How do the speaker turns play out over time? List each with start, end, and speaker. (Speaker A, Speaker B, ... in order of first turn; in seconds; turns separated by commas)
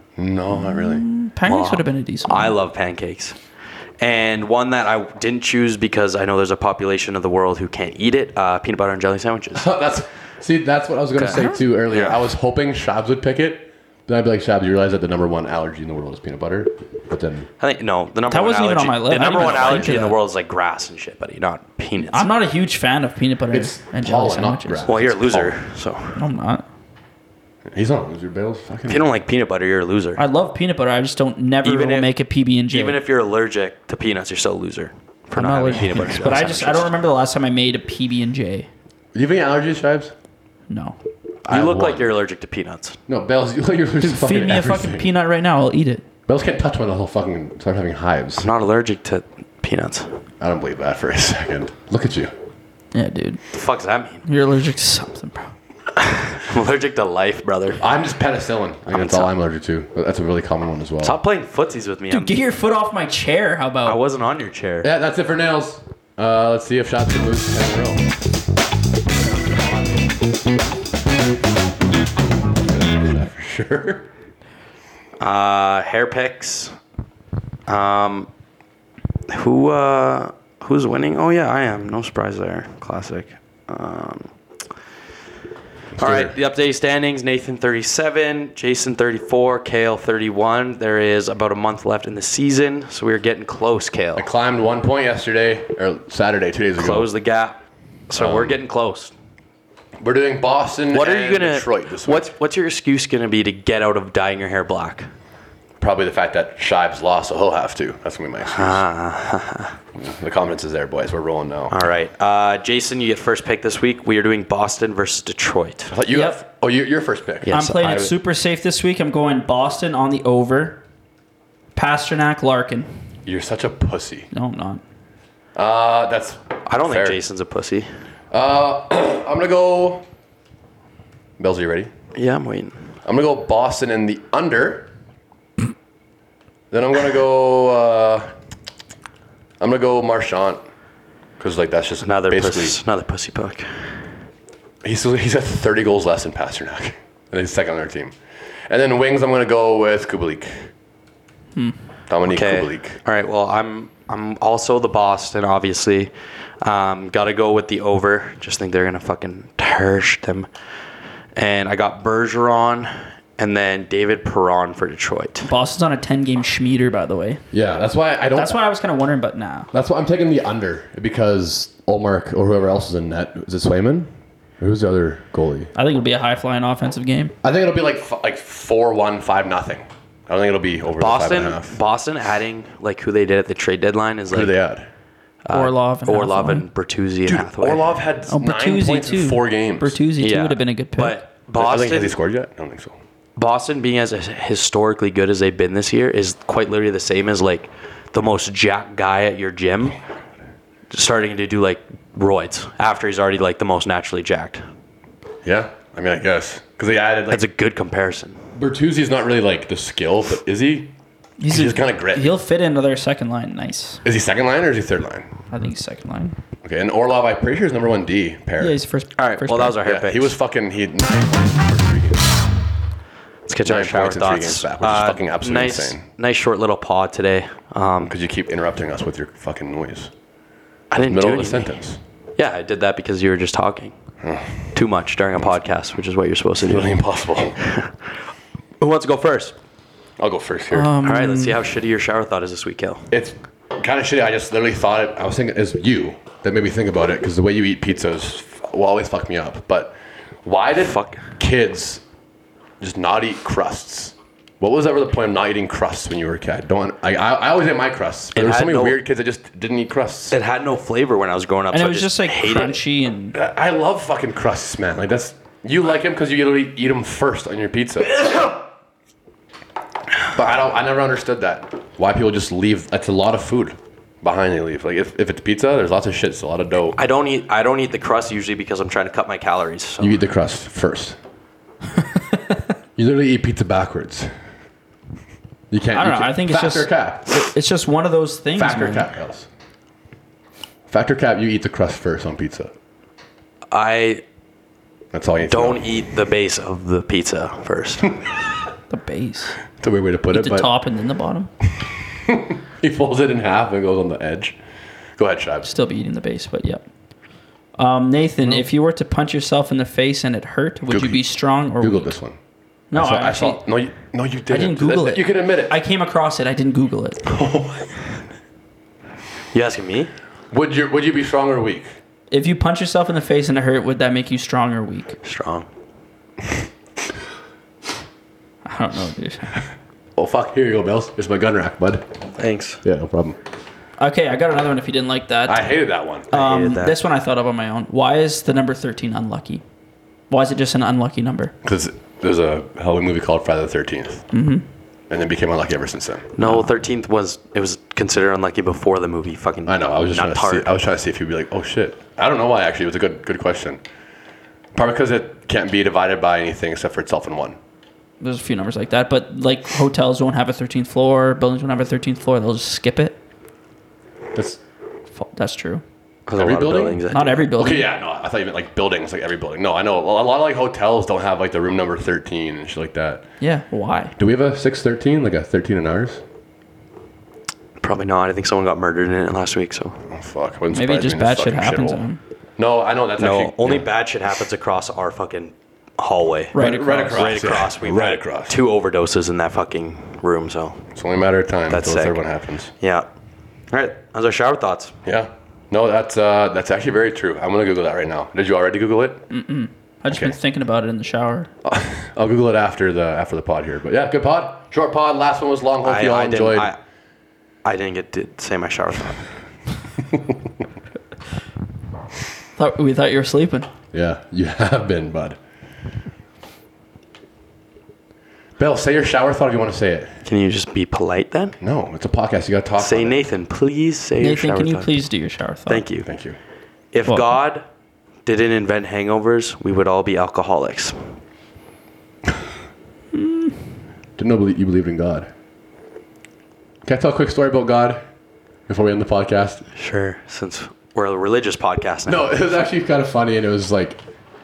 Speaker A: 0.2-1.1, Speaker B: 0.5-2.6, Speaker C: 1.4-3.4, Speaker C: 4.0-9.7, Speaker A: 9.6-17.5, Speaker C: 11.2-12.2, Speaker B: 11.3-11.6, Speaker C: 17.6-22.3, Speaker B: 18.3-20.2, Speaker A: 19.3-19.9, Speaker B: 22.0-24.9, Speaker A: 23.5-25.6, Speaker C: 24.9-26.2, Speaker B: 26.2-26.6, Speaker A: 27.7-29.1, Speaker C: 28.9-30.2, Speaker B: 30.2-33.0, Speaker C: 31.6-32.1, Speaker C: 32.7-36.9, Speaker B: 35.4-38.7, Speaker A: 39.1-40.1, Speaker B: 40.7-41.0, Speaker A: 41.5-42.1, Speaker C: 41.5-43.0, Speaker A: 43.1-45.1, Speaker B: 44.0-46.0, Speaker A: 46.3-48.5, Speaker C: 48.4-50.2, Speaker A: 50.4-52.3, Speaker B: 52.9-53.4, Speaker C: 53.5-54.2, Speaker B: 54.2-55.5, Speaker C: 56.0-57.8, Speaker A: 57.8-61.2, Speaker C: 58.9-59.3, Speaker C: 61.0-62.4, Speaker B: 62.1-64.0, Speaker C: 63.9-64.9, Speaker A: 64.8-68.0, Speaker A: 72.6-74.1, Speaker C: 75.2-76.8, Speaker C: 77.7-78.3, Speaker C: 79.3-84.3, Speaker A: 86.0-86.3, Speaker C: 86.0-94.3, Speaker A: 94.2-97.1, Speaker C: 96.8-99.1, Speaker A: 98.2-98.6, Speaker A: 100.0-102.3, Speaker C: 100.9-105.1, Speaker A: 105.8-108.8, Speaker C: 108.5-109.8, Speaker A: 110.0-111.8, Speaker C: 111.7-115.9, Speaker A: 115.9-117.5, Speaker B: 116.1-116.4, Speaker C: 117.5-118.1, Speaker B: 117.5-120.8, Speaker B: 121.7-122.9, Speaker A: 123.2-124.3, Speaker B: 124.3-124.8, Speaker A: 125.6-127.2, Speaker C: 126.7-127.9, Speaker A: 128.3-130.1, Speaker A: 131.4-131.9, Speaker C: 132.1-132.8, Speaker A: 133.1-134.9, Speaker A: 136.7-138.3, Speaker A: 139.6-140.6, Speaker A: 141.4-142.8, Speaker C: 142.0-144.1, Speaker A: 144.8-148.2, Speaker A: 148.7-150.7, Speaker A: 152.1-153.0, Speaker C: 152.3-160.5, Speaker C: 161.3-165.5, Speaker B: 165.4-167.4, Speaker A: 167.5-168.6, Speaker B: 168.3-169.7, Speaker A: 169.7-175.7, Speaker B: 175.7-177.3, Speaker A: 177.4-181.8, Speaker C: 181.0-184.5, Speaker A: 184.3-184.9, Speaker C: 185.4-187.9, Speaker B: 185.5-186.7, Speaker A: 187.3-190.0, Speaker B: 188.3-191.2, Speaker C: 190.2-192.1, Speaker A: 191.6-192.9, Speaker C: 193.4-200.0, Speaker C: 200.9-204.6, Speaker A: 205.4-207.4, Speaker C: 207.3-208.4, Speaker A: 208.6-210.9, Speaker B: 211.4-214.0, Speaker A: 211.5-212.4, Speaker A: 214.1-215.3, Speaker B: 215.5-216.4, Speaker A: 216.6-218.8, Speaker B: 218.6-219.8, Speaker C: 219.2-220.3, Speaker A: 219.8-222.3, Speaker C: 223.5-228.1, Speaker A: 223.6-226.0, Speaker A: 228.1-230.1, Speaker C: 230.9-231.8, Speaker A: 231.0-232.0, Speaker C: 232.4-233.9, Speaker A: 234.2-234.7, Speaker C: 234.7-236.9, Speaker A: 236.6-237.6, Speaker C: 237.6-237.9, Speaker C: 238.8-239.5, Speaker A: 240.2-240.9, Speaker B: 240.7-241.6, Speaker C: 241.0-243.1, Speaker A: 243.1-252.0, Speaker C: 250.8-251.3, Speaker A: 252.8-260.4, Speaker C: 258.4-259.0, Speaker C: 260.3-262.8, Speaker B: 261.7-263.4, Speaker A: 263.3-268.5, Speaker A: 270.3-277.0, Speaker C: 276.9-280.2, Speaker A: 280.0-281.2, Speaker B: 282.2-282.6, Speaker A: 282.9-284.3, Speaker A: 285.7-287.4, Speaker B: 285.9-289.1, Speaker A: 288.6-289.5, Speaker A: 290.9-292.7, Speaker C: 293.7-294.2, Speaker A: 295.1-296.0, Speaker C: 295.5-298.3, Speaker B: 298.9-299.6, Speaker A: 299.8-300.7, Speaker B: 300.3-301.5, Speaker A: 302.3-304.6, Speaker A: 305.2-305.7, Speaker B: 305.6-306.8, Speaker B: 307.8-312.1, Speaker A: 310.9-312.4, Speaker B: 312.9-313.6, Speaker A: 312.9-315.7, Speaker B: 314.5-317.2, Speaker A: 317.2-318.2, Speaker C: 319.5-320.1, Speaker A: 320.5-321.9, Speaker B: 322.3-325.2, Speaker C: 325.2-325.7, Speaker B: 328.6-329.6, Speaker A: 330.2-332.1, Speaker C: 332.4-332.8, Speaker A: 332.8-333.4, Speaker B: 334.0-335.7, Speaker A: 335.5-336.3, Speaker B: 336.3-339.6, Speaker C: 336.3-337.0, Speaker B: 340.3-341.5, Speaker A: 341.6-344.3, Speaker B: 344.3-344.7, Speaker A: 345.1-346.3, Speaker C: 346.4-350.7, Speaker B: 346.4-346.7, Speaker A: 349.6-353.8, Speaker A: 354.7-357.6, Speaker B: 358.2-363.2, Speaker A: 364.3-364.6, Speaker B: 365.1-365.8, Speaker C: 366.3-367.4, Speaker A: 366.4-367.0, Speaker B: 367.1-367.9, Speaker A: 367.6-373.3, Speaker B: 373.4-374.1, Speaker A: 374.2-376.2, Speaker C: 377.8-380.0, Speaker A: 380.1-382.0, Speaker B: 380.7-382.2, Speaker A: 382.6-383.9, Speaker C: 383.2-390.9, Speaker B: 386.5-387.5, Speaker A: 386.5-388.6, Speaker A: 390.9-392.7, Speaker C: 391.7-392.2, Speaker C: 392.8-393.1, Speaker C: 393.7-394.9, Speaker A: 395.1-399.2, Speaker B: 399.3-401.5, Speaker A: 400.1-400.4, Speaker A: 401.6-406.7, Speaker C: 405.8-406.8, Speaker C: 407.6-409.2, Speaker B: 412.6-413.7, Speaker A: 413.9-415.4, Speaker A: 418.6-420.2, Speaker C: 420.2-421.6, Speaker A: 421.6-423.2, Speaker C: 422.8-424.9, Speaker B: 424.2-425.9, Speaker C: 425.7-426.1, Speaker A: 426.0-426.4, Speaker C: 426.9-427.6, Speaker B: 427.1-427.3, Speaker C: 428.3-431.0, Speaker B: 433.1-433.6, Speaker A: 434.2-435.3, Speaker A: 436.9-438.0, Speaker A: 438.7-439.6, Speaker C: 439.7-442.4, Speaker A: 442.1-444.0